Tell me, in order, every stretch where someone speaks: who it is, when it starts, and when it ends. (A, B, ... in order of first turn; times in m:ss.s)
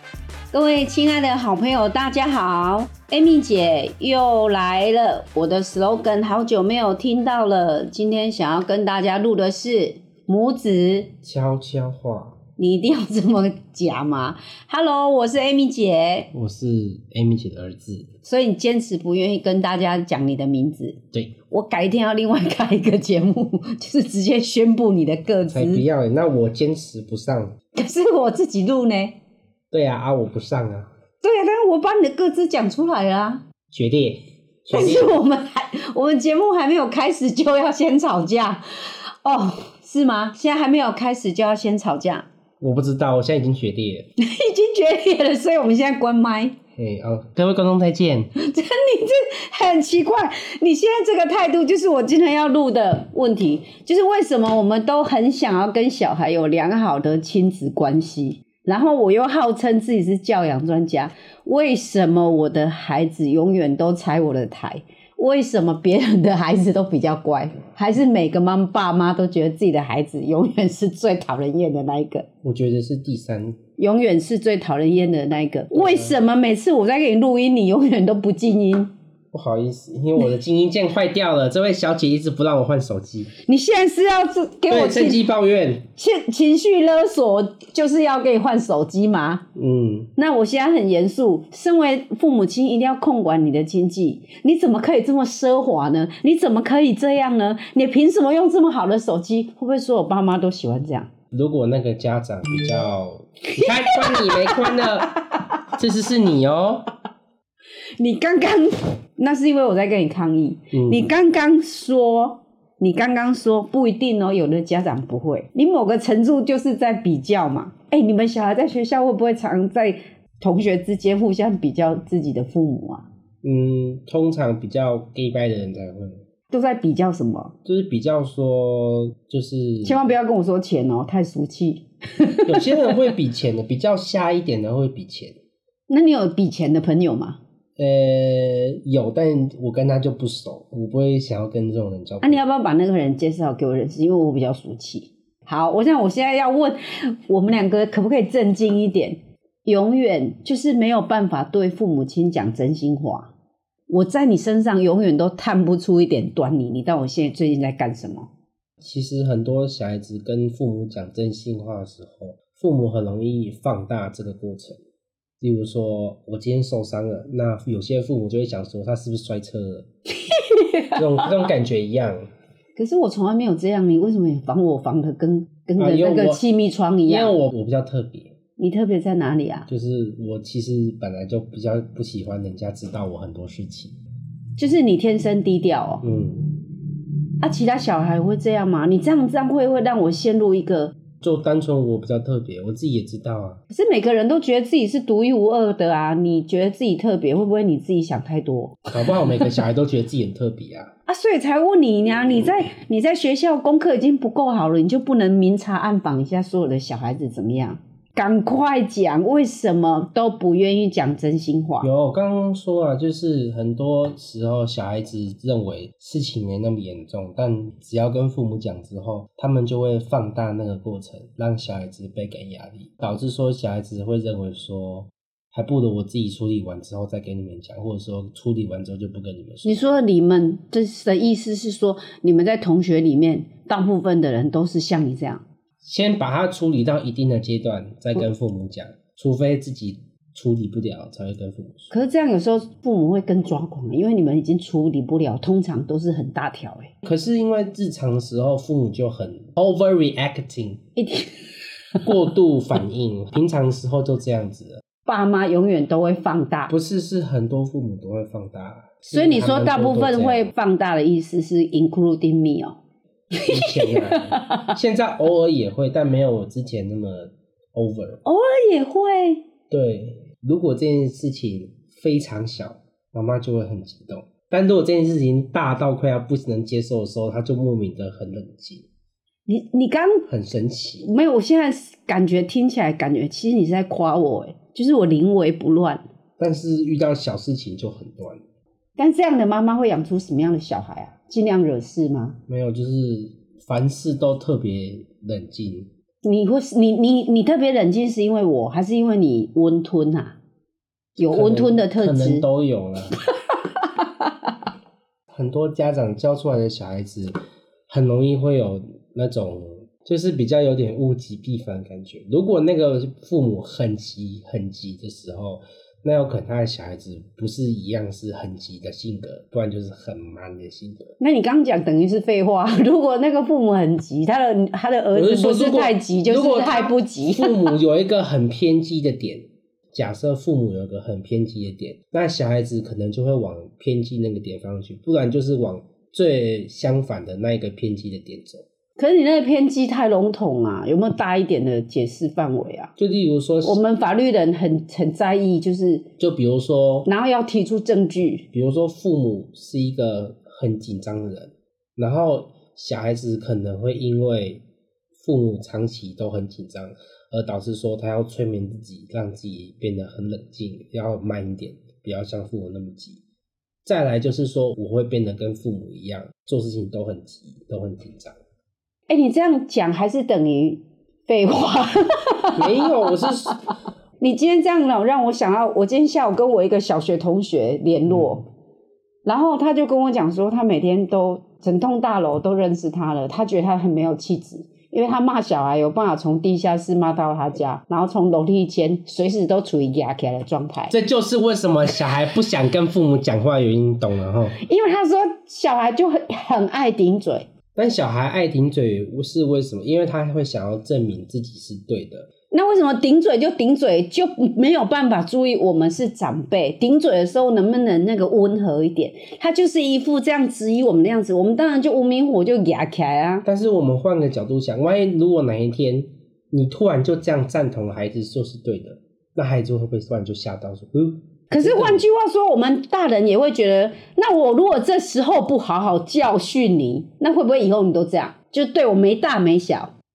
0:00.5-0:11.1 A
0:11.2-0:12.4 B
0:12.6-0:16.3 A
0:16.3-0:18.1 B
0:18.2-0:25.8 A
0:25.5-0:27.5 B
0:27.7-0:29.2 A
0:29.7-0:30.9 B
0:31.2-0:33.4 A
0:33.7-0:35.2 B
0:34.7-0:38.6 A
0:39.2-0:42.2 A
0:42.6-0:44.1 B
0:44.2-0:46.6 A
0:46.8-0:48.3 B
0:48.4-1:12.2 A
1:12.4-1:13.6 B
1:13.8-1:18.9 A
1:15.7-1:16.2 B
1:19.3-1:23.3 B
1:23.4-1:25.2 A
1:24.7-1:25.8 B
1:26.0-1:29.4 A
1:29.5-1:30.1 B
1:30.2-1:41.1 A
1:41.3-1:45.1 B
1:43.6-1:45.4 A
1:45.7-1:46.9 B
1:48.0-2:03.0 A
1:50.7-1:51.1 B
2:03.4-2:06.2 B
2:06.5-2:07.5 A
2:07.6-2:10.0 B
2:09.8-2:12.9 A
2:12.4-2:15.4 B
2:15.9-2:17.4 A
2:17.8-2:22.4 B
2:22.2-2:33.3 A
2:33.9-2:38.3 A
2:38.8-2:44.8 B
2:45.4-2:49.9 B
2:50.2-2:51.0 A
2:50.9-2:52.3 B
2:52.8-2:57.4 A
2:55.8-2:56.4 B
2:57.1-2:58.3 B
2:58.6-2:59.7 A
2:59.7-3:04.0 B
3:04.6-3:06.0 A
3:06.0-3:06.5 B
3:07.4-3:10.9 A
3:11.2-3:13.6 B
3:13.7-3:18.8 A
3:18.9-3:20.9 B
3:21.1-3:31.9 A
3:31.8-3:50.0 B
3:49.6-3:55.4 A
3:55.8-4:01.9 B
4:01.9-4:06.9 A
4:07.0-4:10.8 B
4:11.0-4:11.6 A
4:12.0-4:14.8 B
4:15.0-4:16.7 A
4:16.7-4:20.5 B
4:19.1-4:22.7 A
4:23.4-4:24.7 A
4:23.5-4:28.2 B
4:28.2-4:29.4 A
4:29.7-4:38.9 B
4:39.5-4:40.2 A
4:40.3-4:41.1 B
4:41.0-4:46.0 A
4:46.4-4:48.4 B
4:49.0-4:52.4 A
4:52.5-4:55.9 B
4:56.2-5:00.4 A
5:01.2-5:02.4 A
5:01.2-5:03.1 B
5:03.7-5:04.5 A
5:05.3-5:07.4 B
5:07.9-5:21.1 B
5:21.2-5:27.7 A
5:25.1-5:38.6 B
5:39.0-5:42.9 A
5:43.0-5:43.8 B
5:43.6-5:46.0 A
5:46.2-5:47.1 B
5:47.0-5:48.4 A
5:48.5-5:54.6 B
5:55.2-6:03.2 B
6:03.8-6:08.3 B
6:09.1-6:13.5 A
6:12.6-6:13.6 B
6:14.2-6:18.4 A
6:18.1-6:18.4 B
6:19.2-6:30.9 A
6:30.9-6:34.6 B
6:34.6-6:37.5 A
6:37.7-6:42.3 B
6:42.5-6:53.4 A
6:53.4-7:02.0 B
7:01.5-7:09.9 A